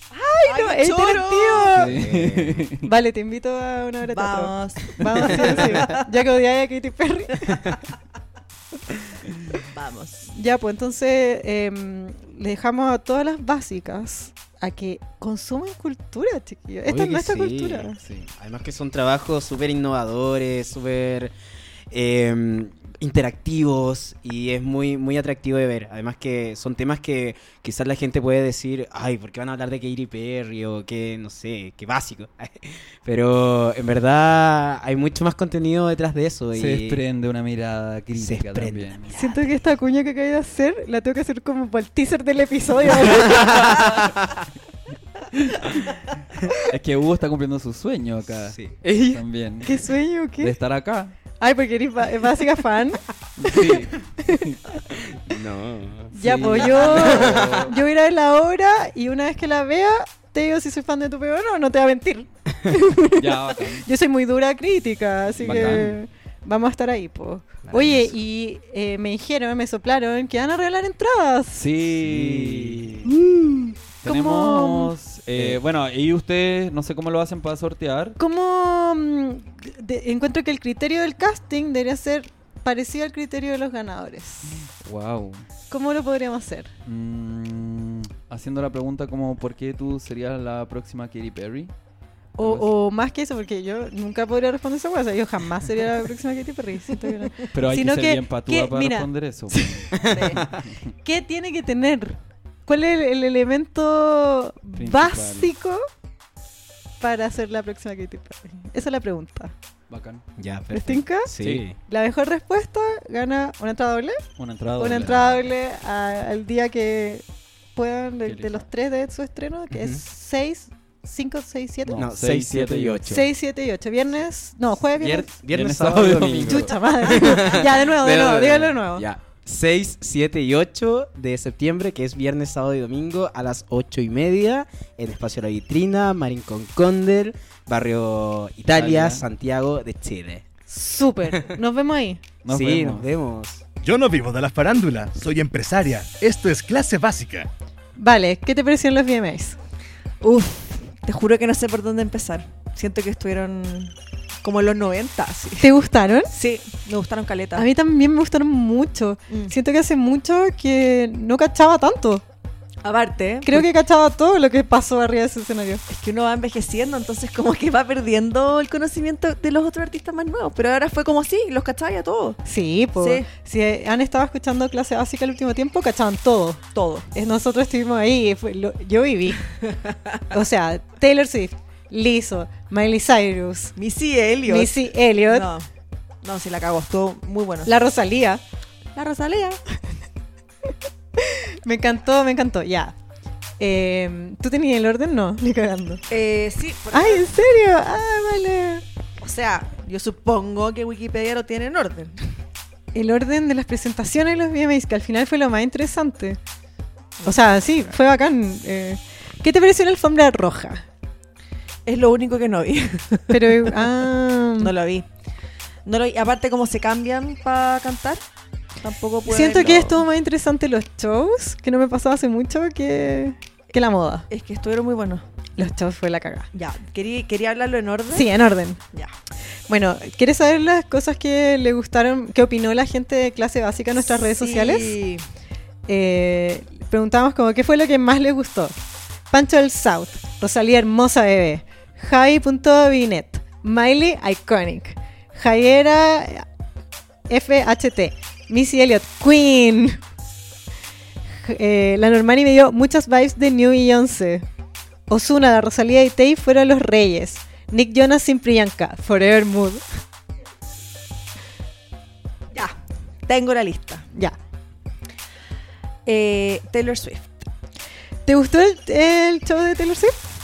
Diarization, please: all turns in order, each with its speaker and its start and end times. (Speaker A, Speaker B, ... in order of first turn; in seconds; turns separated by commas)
Speaker A: 0.1-1.7, Speaker B: 0.2-2.0, Speaker C: 1.6-2.9, Speaker D: 1.8-2.7, Speaker B: 2.8-7.6, Speaker A: 4.1-6.0, Speaker A: 9.6-10.3, Speaker B: 10.3-18.0, Speaker D: 16.9-21.3, Speaker C: 18.0-18.3, Speaker D: 21.9-37.0, Speaker C: 36.5-39.1, Speaker D: 38.1-39.2, Speaker B: 39.1-43.8, Speaker C: 43.2-44.1, Speaker D: 43.5-44.1, Speaker C: 45.3-46.0, Speaker C: 46.6-51.1, Speaker D: 48.4-49.2, Speaker B: 49.6-50.5, Speaker B: 51.4-54.4, Speaker C: 53.4-54.6, Speaker D: 54.9-57.7, Speaker C: 56.1-57.8, Speaker B: 56.1-71.6, Speaker C: 63.2-63.9, Speaker C: 65.3-66.0, Speaker D: 65.5-65.9, Speaker D: 67.6-68.1, Speaker C: 71.5-73.1, Speaker D: 72.0-73.1, Speaker B: 73.1-74.9, Speaker C: 74.0-78.2, Speaker D: 75.3-75.6, Speaker B: 78.2-84.6, Speaker C: 84.8-85.5, Speaker B: 85.7-86.7, Speaker C: 86.9-91.7, Speaker B: 92.4-100.3, Speaker C: 92.4-92.7, Speaker C: 97.5-100.7, Speaker D: 100.0-100.6, Speaker A: 100.1-100.4, Speaker B: 101.0-105.8, Speaker C: 104.7-105.5, Speaker B: 107.0-109.5, Speaker C: 109.9-110.2, Speaker D: 110.4-111.8, Speaker B: 110.7-111.3, Speaker C: 111.4-111.7, Speaker B: 111.9-114.3, Speaker C: 114.4-115.5, Speaker B: 114.8-117.2, Speaker B: 117.8-122.1, Speaker C: 118.2-118.7, Speaker D: 119.7-120.0, Speaker C: 121.9-123.2, Speaker D: 121.9-123.3, Speaker B: 123.1-125.3, Speaker C: 124.9-127.2, Speaker D: 125.4-140.4, Speaker B: 126.5-129.1, Speaker C: 138.7-139.2, Speaker B: 140.7-142.2, Speaker C: 142.4-143.1, Speaker D: 142.5-143.6, Speaker E: 143.8-147.5, Speaker B: 148.0-149.6, Speaker A: 150.2-155.7, Speaker B: 155.6-156.3, Speaker A: 156.3-157.7, Speaker B: 157.6-162.2, Speaker A: 159.3-159.6, Speaker A: 162.8-163.7, Speaker B: 163.4-165.8, Speaker A: 165.9-172.4, Speaker B: 172.4-179.4, Speaker A: 173.0-173.3, Speaker A: 176.7-177.1, Speaker A: 179.9-180.2, Speaker B: 180.3-183.7, Speaker A: 183.8-185.7, Speaker B: 184.5-185.5, Speaker A: 186.2-187.7, Speaker B: 187.7-188.4, Speaker A: 188.9-189.6, Speaker B: 191.2-192.9, Speaker B: 193.6-196.0, Speaker A: 196.1-197.3, Speaker B: 196.9-198.8, Speaker A: 199.2-202.3, Speaker B: 202.9-206.4, Speaker A: 207.2-208.0, Speaker B: 207.2-210.8, Speaker A: 211.9-213.9, Speaker B: 213.3-214.7, Speaker A: 214.6-215.1, Speaker A: 215.9-218.2, Speaker A: 218.8-220.1, Speaker B: 219.3-224.3, Speaker A: 224.3-225.2, Speaker B: 225.6-226.5, Speaker A: 226.5-228.3, Speaker B: 228.1-228.8, Speaker B: 229.7-234.9, Speaker A: 234.2-235.2, Speaker B: 235.9-238.8, Speaker B: 239.3-246.5, Speaker B: 247.3-250.0, Speaker B: 251.4-254.4, Speaker B: 255.1-259.8, Speaker A: 263.3-264.1, Speaker A: 266.1-267.5, Speaker B: 268.3-270.3